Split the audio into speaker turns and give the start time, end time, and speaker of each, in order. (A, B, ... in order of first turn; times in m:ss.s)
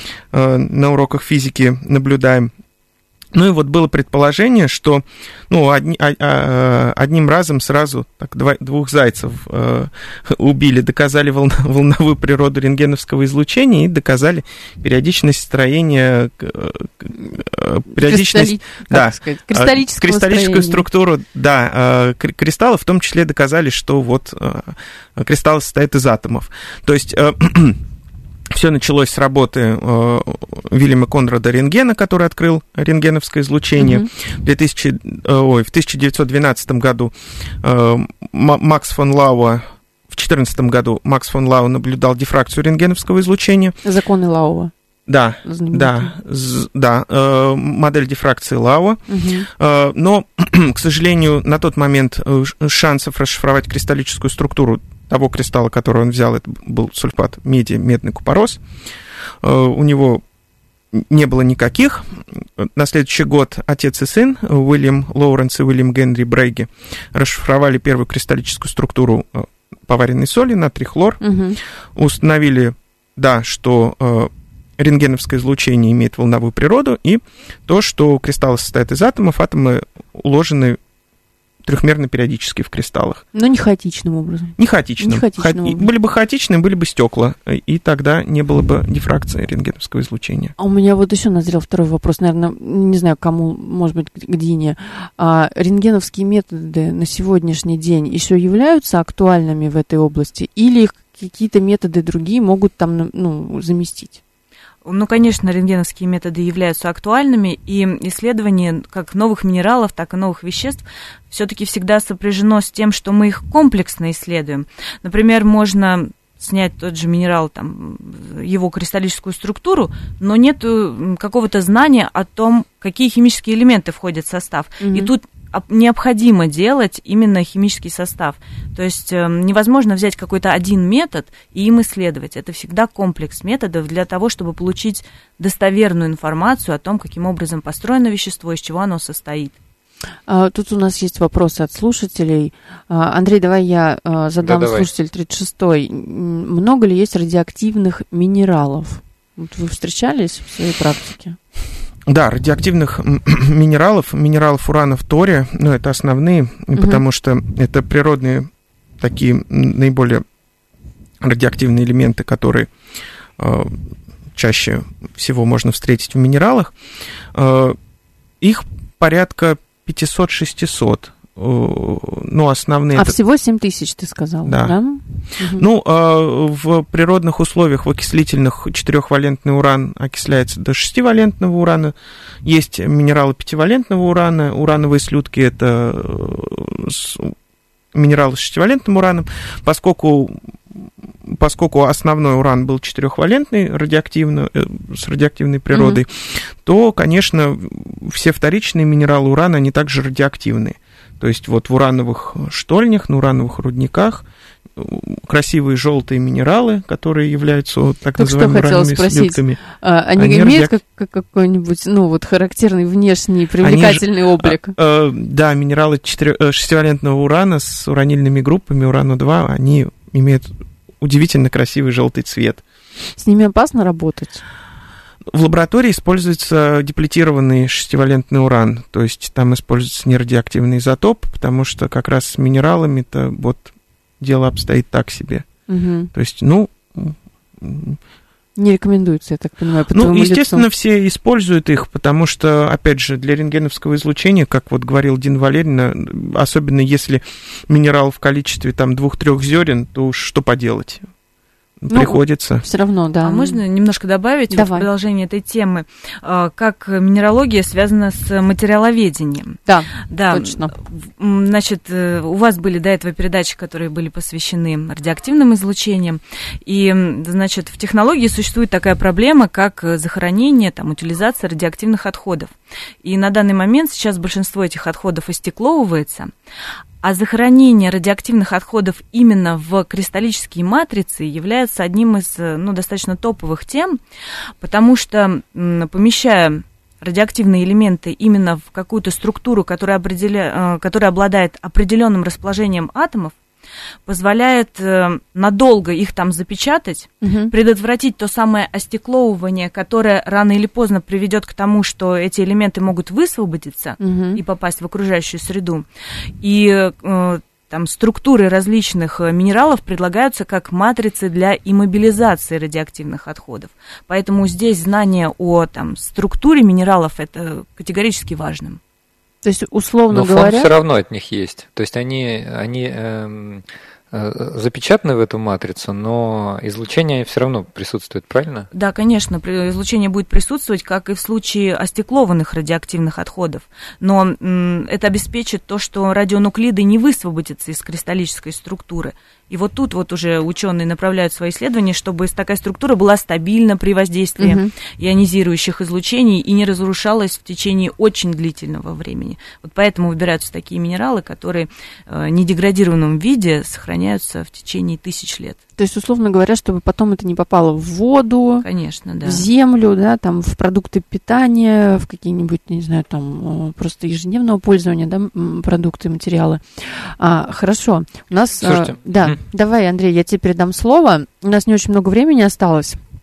0:00.3-0:02.5 A
0:03.3-0:27.8 A
0:17.9-0:20.8 B
0:28.5-0:43.8 A
0:33.8-0:34.1 B
0:43.8-0:44.7 B
0:45.1-0:49.0 A
0:45.4-0:46.1 B
0:49.1-0:49.5 B
0:49.5-0:58.6 A
0:59.4-1:00.2 A
1:00.9-1:11.2 A
1:11.2-1:11.6 B
1:12.0-1:20.8 A
1:21.6-1:23.2 A
1:23.3-1:25.9 B
1:24.6-1:30.5 A
1:30.6-1:44.2 B
1:44.8-2:19.5 C
2:04.8-2:05.1 B
2:20.3-2:31.4 B
2:24.4-2:24.9 D
2:32.1-2:40.2 A
2:36.7-2:37.0 B
2:41.2-2:42.7 A
2:43.4-2:43.8 A
2:44.3-2:46.7 A
2:47.3-2:47.8 A
2:48.4-2:53.1 A
2:52.9-2:55.6 B
2:54.4-2:54.8 A
2:55.6-3:07.3 A
3:07.9-3:24.2 A
3:15.7-3:16.0 B
3:24.8-3:29.6 A
3:28.2-3:34.8 B
3:30.2-3:30.8 A
3:33.6-3:42.6 A
3:43.2-3:44.4 B
3:45.3-3:53.7 A
3:54.2-3:55.5 A
3:55.7-3:56.1 B
3:56.1-3:58.0 A
3:58.6-4:00.6 B
3:59.9-4:11.0 A
4:11.8-4:12.6 A
4:11.9-4:13.6 B
4:13.2-4:32.5 C
4:14.5-4:14.9 B
4:19.6-4:20.7 B
4:33.0-4:36.3 C
4:37.0-4:44.0 C
4:44.6-4:53.3 C
4:54.0-5:05.8 C
4:57.2-4:57.5 B
5:04.0-5:04.4 B
5:06.4-5:18.8 C
5:19.4-5:20.7 B
5:20.1-5:28.7 D
5:28.7-5:55.6 C
5:44.4-5:44.7 B
5:55.8-5:58.6 B
5:58.6-5:59.5 C
5:59.2-6:13.0 B
6:08.6-6:09.4 D